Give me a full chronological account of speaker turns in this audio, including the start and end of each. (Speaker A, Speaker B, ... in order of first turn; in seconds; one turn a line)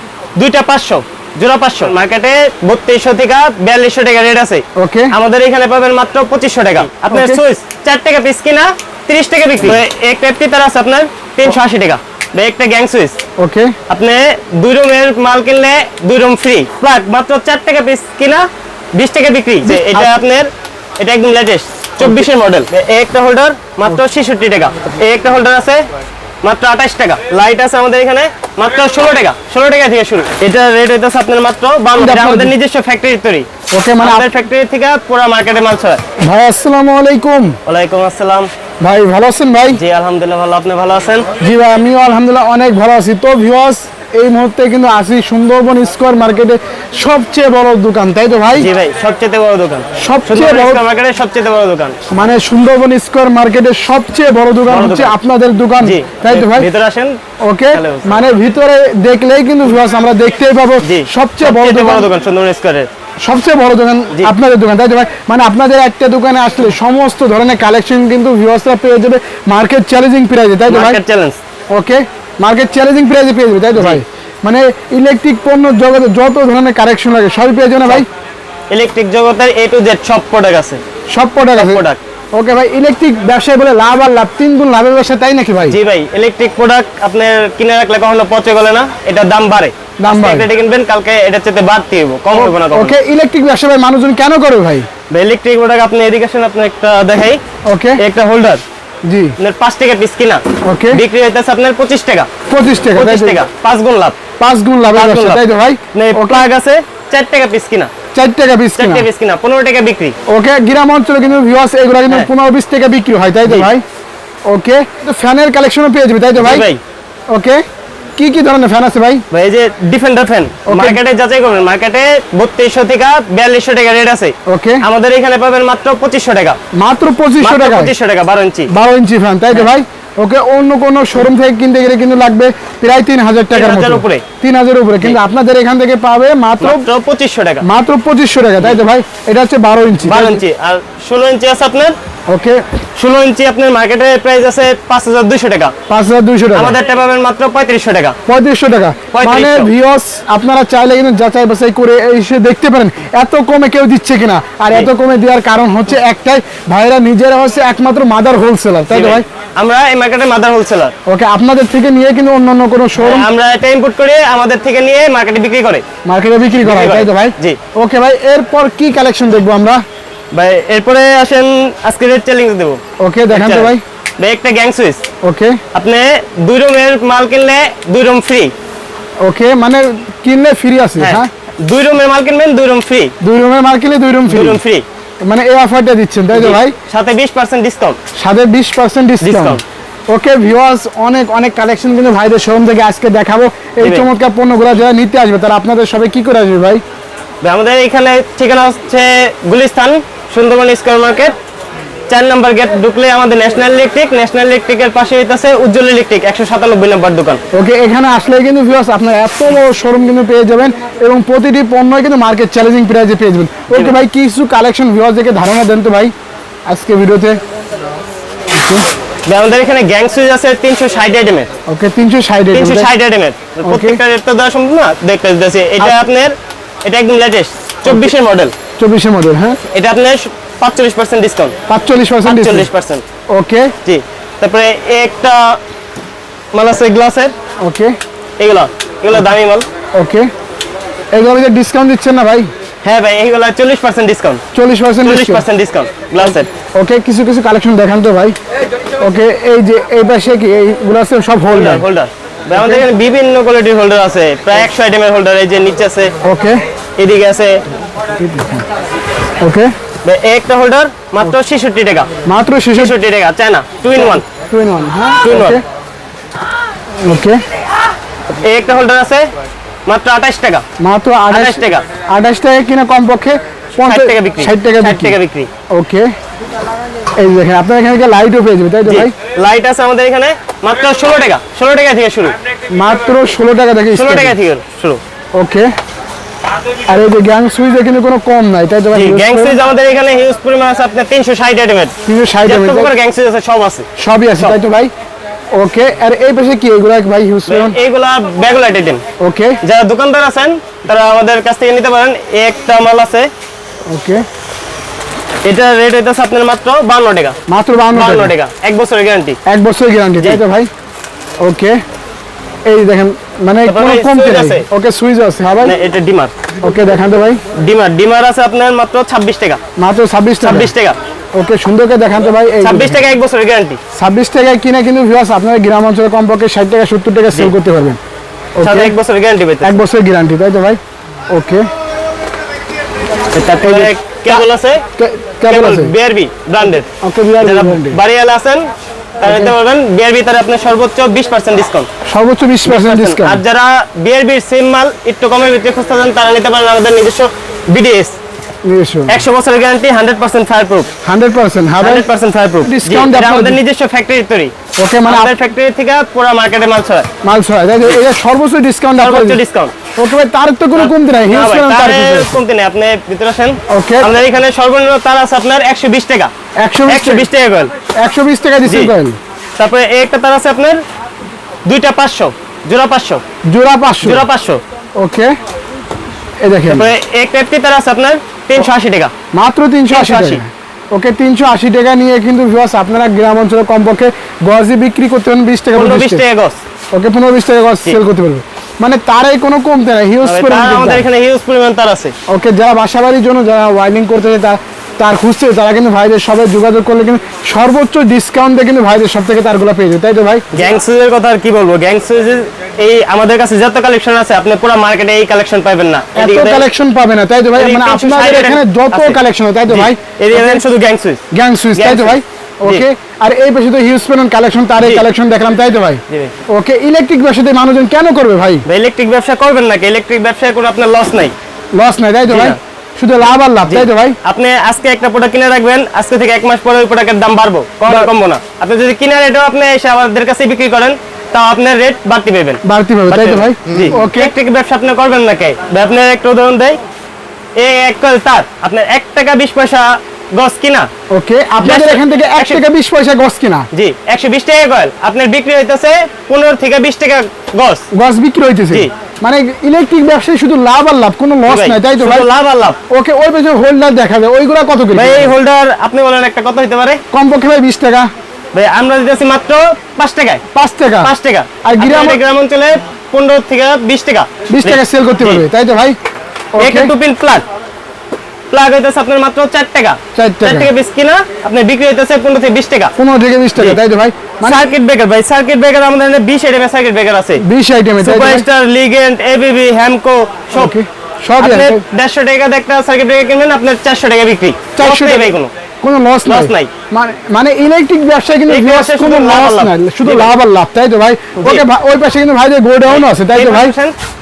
Speaker A: 0.4-13.2
Speaker B: 4.8-5.1
Speaker B: 7.1-7.4
Speaker B: 13.4-13.8
Speaker A: 13.9-25.8
Speaker B: 19.7-20.1
Speaker B: 22.0-22.3
Speaker A: 26.4-33.5
Speaker B: 32.0-32.5
Speaker B: 33.7-34.3
Speaker A: 34.0-36.0
Speaker B: 36.2-37.6
Speaker A: 37.7-38.5
Speaker B: 38.8-39.8
Speaker A: 39.7-41.3
Speaker B: 41.4-48.7
Speaker A: 48.5-52.0
Speaker B: 50.0-50.8
Speaker B: 52.1-56.7
Speaker A: 54.7-55.1
Speaker A: 55.8-57.2
Speaker B: 57.4-62.1
Speaker A: 57.7-58.2
Speaker A: 60.8-62.9
Speaker B: 63.2-71.0
Speaker A: 70.7-71.4
Speaker B: 71.7-78.1
Speaker A: 73.8-74.0
Speaker A: 78.7-80.8
Speaker B: 81.1-81.8
Speaker A: 81.5-82.0
Speaker B: 82.3-85.8
Speaker A: 85.7-93.0
Speaker B: 90.0-90.5
Speaker B: 92.3-94.9
Speaker A: 95.1-97.4
Speaker B: 97.7-98.0
Speaker A: 98.0-98.6
Speaker B: 99.1-99.4
Speaker A: 99.4-102.3
Speaker B: 100.7-101.0
Speaker B: 102.5-103.4
Speaker A: 103.0-104.2
Speaker B: 104.4-106.5
Speaker A: 104.9-105.4
Speaker A: 105.9-107.9
Speaker B: 108.2-109.1
Speaker A: 108.8-110.2
Speaker B: 110.3-113.8
Speaker A: 113.5-113.7
Speaker B: 114.5-116.7
Speaker A: 116.4-116.8
Speaker B: 117.3-117.6
Speaker B: 118.2-119.2
Speaker A: 119.3-126.6
Speaker B: 120.7-121.0
Speaker B: 124.5-124.8
Speaker B: 126.7-127.9
Speaker A: 127.4-128.7
Speaker B: 128.7-136.9
Speaker A: 133.5-134.2
Speaker A: 136.6-137.7
Speaker B: 137.6-140.4
Speaker A: 140.0-142.0
Speaker B: 142.3-142.6
Speaker A: 142.9-145.7
Speaker B: 145.9-146.8
Speaker A: 146.5-148.2
Speaker B: 148.3-159.2
Speaker A: 149.1-149.7
Speaker A: 158.9-160.9
Speaker B: 161.1-163.3
Speaker A: 163.0-165.8
Speaker B: 166.1-169.8
Speaker A: 166.6-167.6
Speaker A: 170.3-175.0
Speaker B: 173.0-173.8
Speaker B: 175.2-175.6
Speaker A: 175.7-178.5
Speaker B: 179.2-181.3
Speaker A: 181.0-183.1
Speaker B: 183.2-184.6
Speaker A: 184.3-184.8
Speaker B: 185.2-186.8
Speaker A: 186.3-188.0
Speaker B: 188.2-196.8
Speaker A: 189.2-189.6
Speaker A: 193.8-194.1
Speaker A: 197.4-201.3
Speaker A: 202.1-207.4
Speaker B: 207.5-216.1
Speaker B: 216.7-217.4
Speaker B: 218.5-218.9
Speaker A: 219.3-221.5
Speaker B: 221.7-222.9
Speaker A: 222.5-228.5
Speaker B: 223.7-224.0
Speaker B: 228.8-229.6
Speaker A: 229.7-231.6
Speaker B: 231.7-232.7
Speaker A: 232.2-233.0
Speaker B: 233.3-233.7
Speaker A: 233.8-235.6
Speaker A: 236.5-237.3
Speaker B: 237.6-238.0
Speaker A: 238.4-239.7
Speaker B: 239.9-240.3
Speaker B: 241.2-242.5
Speaker A: 242.8-244.4
Speaker B: 244.5-245.4
Speaker A: 245.0-246.5
Speaker B: 246.2-248.4
Speaker B: 249.0-251.8
Speaker A: 251.5-256.1
Speaker B: 252.5-252.9
Speaker B: 256.2-256.6
Speaker A: 257.0-257.6
Speaker B: 258.2-258.7
Speaker B: 259.4-259.7
Speaker A: 260.0-262.1
Speaker B: 262.3-263.0
Speaker A: 262.7-264.2
Speaker B: 264.0-265.6
Speaker A: 265.2-265.6
Speaker B: 267.0-267.4
Speaker A: 268.3-269.3
Speaker A: 269.9-270.6
Speaker B: 270.8-275.2
Speaker A: 271.3-271.9
Speaker A: 273.9-275.5
Speaker B: 275.7-276.1
Speaker B: 277.2-279.1
Speaker A: 278.9-282.4
Speaker B: 282.7-284.4
Speaker A: 283.9-285.0
Speaker B: 285.4-285.7
Speaker B: 286.9-289.6
Speaker A: 288.9-294.6
Speaker B: 292.1-292.9
Speaker B: 294.0-294.9
Speaker B: 295.6-297.8
Speaker A: 297.5-299.0
Speaker B: 299.2-299.6
Speaker A: 299.6-303.3
Speaker B: 303.9-304.2
Speaker A: 305.4-307.4
Speaker B: 307.5-308.3
Speaker A: 307.9-309.4
Speaker B: 309.5-310.7
Speaker B: 311.4-311.8
Speaker B: 312.7-315.8
Speaker A: 313.6-314.7
Speaker A: 315.6-316.3
Speaker B: 316.6-317.4
Speaker A: 317.5-319.6
Speaker B: 319.8-320.7
Speaker A: 320.4-321.0
Speaker B: 321.3-323.0
Speaker A: 322.6-323.8
Speaker B: 323.9-328.0
Speaker B: 328.6-328.9
Speaker A: 328.6-329.8
Speaker B: 329.6-331.7
Speaker A: 333.3-334.8
Speaker B: 333.6-334.4
Speaker B: 335.0-335.9
Speaker A: 335.5-336.9
Speaker B: 337.0-338.0
Speaker A: 337.4-338.7
Speaker A: 339.2-341.9
Speaker B: 339.2-339.5
Speaker B: 342.1-343.4
Speaker A: 342.7-348.2
Speaker B: 348.6-349.2
Speaker A: 349.1-350.9
Speaker B: 351.1-352.1
Speaker A: 351.8-354.6
Speaker B: 352.6-353.6
Speaker B: 354.8-355.4
Speaker A: 355.1-357.1
Speaker B: 357.2-359.4
Speaker A: 359.0-359.8
Speaker B: 360.0-362.4
Speaker A: 360.8-366.3
Speaker B: 363.7-364.1
Speaker B: 366.6-367.3
Speaker A: 366.9-367.7
Speaker B: 368.0-369.2
Speaker A: 368.7-368.9
Speaker A: 369.6-370.8
Speaker A: 371.7-373.2
Speaker B: 373.5-374.3
Speaker A: 374.0-374.6
Speaker B: 375.0-375.3
Speaker B: 376.4-376.9
Speaker A: 376.7-379.1
Speaker B: 379.3-386.2
Speaker A: 379.9-380.4
Speaker A: 385.7-386.6
Speaker B: 386.9-391.1
Speaker A: 390.2-392.1
Speaker B: 392.3-400.5
Speaker A: 400.5-406.7
Speaker B: 406.1-410.6
Speaker A: 407.6-411.2
Speaker B: 411.3-418.6
Speaker A: 411.8-412.9
Speaker A: 418.7-421.3
Speaker B: 421.7-424.2
Speaker A: 422.3-422.6
Speaker A: 423.7-436.8
Speaker B: 427.9-428.1
Speaker B: 432.6-434.3
Speaker A: 437.6-440.9
Speaker B: 441.1-443.7
Speaker A: 441.6-442.6
Speaker A: 443.7-447.9
Speaker B: 447.9-452.3
Speaker A: 451.5-452.8
Speaker B: 452.9-455.4
Speaker A: 454.9-457.0
Speaker B: 457.1-458.1
Speaker A: 458.5-460.4
Speaker B: 460.5-462.2
Speaker A: 461.0-465.4
Speaker B: 464.5-466.0
Speaker B: 466.6-466.9
Speaker A: 466.6-467.4
Speaker A: 468.5-472.9
Speaker B: 470.1-470.7
Speaker B: 473.0-474.7
Speaker A: 474.4-477.4
Speaker B: 477.4-478.5
Speaker A: 478.0-480.7
Speaker B: 480.5-481.8
Speaker A: 481.4-485.5
Speaker B: 484.8-493.7
Speaker A: 486.3-486.7
Speaker A: 488.5-490.3
Speaker A: 491.4-491.6
Speaker A: 492.9-494.0